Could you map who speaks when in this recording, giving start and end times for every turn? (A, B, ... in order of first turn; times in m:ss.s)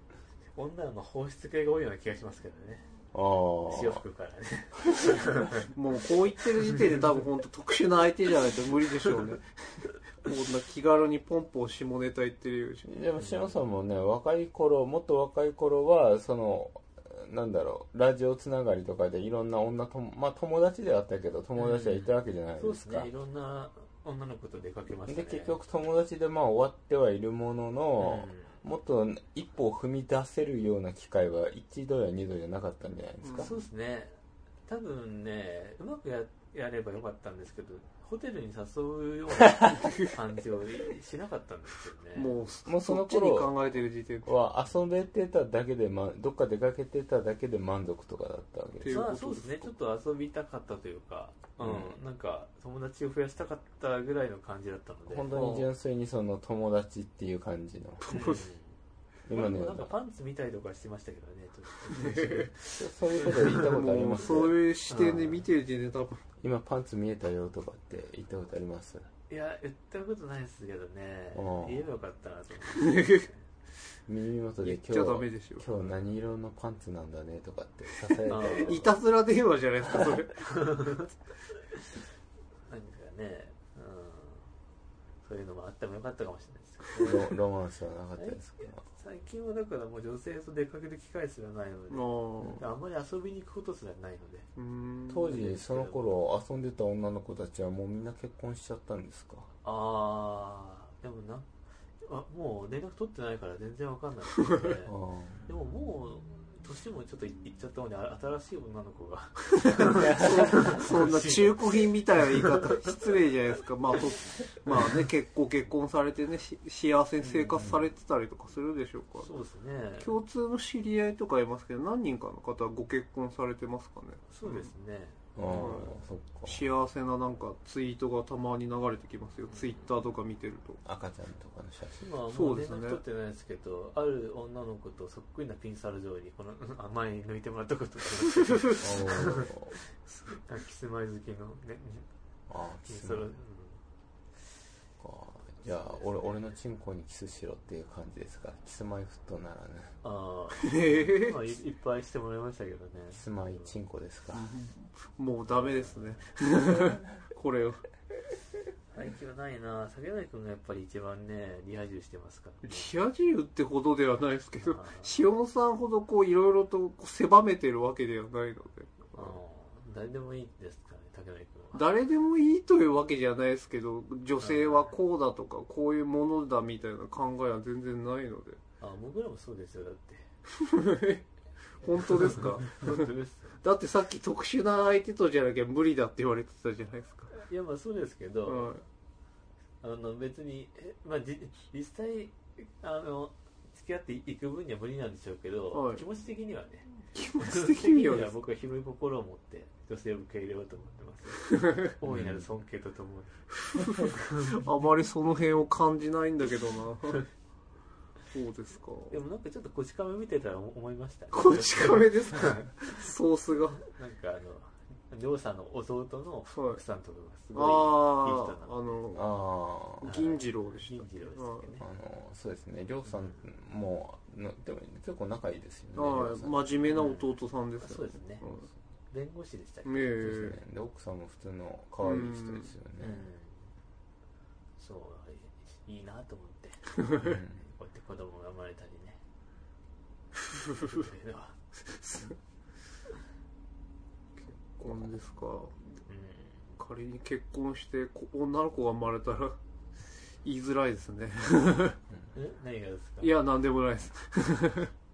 0:00.5-0:02.9 A
0:03.1-0:04.0 B
0:03.7-0:05.7 A
0:05.7-0:12.9 C
0:06.6-0:06.9 A
0:12.8-0:23.1 B
0:13.2-0:13.6 A
0:21.6-0:25.6 A
0:25.1-0:33.6 B
0:28.0-0:28.6 A
0:33.3-0:34.1 A
0:34.7-0:42.3 A
0:42.2-0:44.3 C
0:42.6-0:43.7 B
0:44.2-0:49.0 B
0:48.8-0:49.7 C
0:48.9-0:55.3 A
0:51.6-0:52.0 B
0:55.1-0:58.1 B
0:55.3-0:55.7 C
0:58.0-0:58.4 C
0:58.1-0:58.7 A
0:59.3-0:59.9 B
0:59.3-1:03.7 A
1:02.1-1:02.4 C
1:02.8-1:04.6 B
1:03.5-1:06.2 C
1:04.9-1:05.4 A
1:06.4-1:09.1 B
1:09.3-1:13.5 A
1:11.3-1:11.8 B
1:12.8-1:13.2 C
1:14.1-1:18.9 B
1:14.6-1:15.6 C
1:15.7-1:16.0 A
1:18.3-1:18.9 A
1:18.6-1:20.4 C
1:20.3-1:21.1 A
1:22.7-1:24.5 A
1:25.2-1:27.4 A
1:27.0-1:28.8 B
1:28.2-1:34.5 A
1:31.9-1:32.6 C
1:34.6-1:35.4 C
1:35.1-1:39.5 B
1:35.2-1:36.2 A
1:39.6-1:41.5 A
1:42.0-1:44.9 A
1:44.8-1:45.5 B
1:45.5-1:52.5 A
1:49.8-1:59.3 C
1:50.0-1:50.7 B
1:57.2-1:57.7 A
1:57.6-1:57.9 B
1:59.2-2:00.2 A
2:00.0-2:04.7 C
2:04.3-2:05.8 A
2:05.4-2:06.6 B
2:05.5-2:10.8 C
2:09.5-2:09.9 A
2:10.8-2:12.0 B
2:11.9-2:19.5 A
2:12.3-2:13.0 C
2:18.8-2:19.8 B
2:20.3-2:22.1 A
2:22.5-2:23.3 B
2:22.8-2:23.8 A
2:25.0-2:29.9 B
2:25.6-2:26.4 A
2:30.0-2:33.7 A
2:30.6-2:31.4 C
2:33.1-2:34.5 B
2:34.3-2:37.8 C
2:35.4-2:36.3 A
2:38.9-2:43.0 A
2:42.6-2:49.4 C
2:44.6-2:45.2 A
2:49.1-2:51.8 A
2:51.7-2:58.6 C
2:54.4-2:54.9 A
2:58.8-3:00.3 A
3:00.6-3:01.2 C
3:01.8-3:03.1 C
3:02.3-3:03.6 A
3:03.6-3:07.3 C
3:07.3-3:08.8 A
3:08.5-3:08.8 C
3:09.8-3:24.6 A
3:15.7-3:16.0 C
3:17.1-3:18.4 C
3:22.0-3:22.5 B
3:24.4-3:27.3 C
3:28.3-3:29.2 C
3:29.1-3:32.8 A
3:31.3-3:33.8 C
3:33.8-3:39.0 A
3:36.5-3:36.8 C
3:37.5-3:39.3 C
3:39.1-3:40.1 B
3:40.0-3:41.7 C
3:40.0-3:41.8 A
3:41.8-3:46.6 B
3:43.0-3:43.4 A
3:45.9-3:48.7 C
3:46.9-3:48.4 A
3:49.1-3:50.1 A
3:49.8-3:50.6 C
3:50.2-3:53.2 B
3:52.0-3:52.7 C
3:53.0-3:53.7 A
3:54.8-3:59.2 A
3:57.2-3:57.6 B
4:00.7-4:01.6 A
4:01.8-4:02.4 C
4:04.4-4:05.8 C
4:06.0-4:06.7 A
4:06.8-4:09.6 C
4:10.4-4:12.0 C
4:12.3-4:13.3 A
4:13.2-4:14.9 C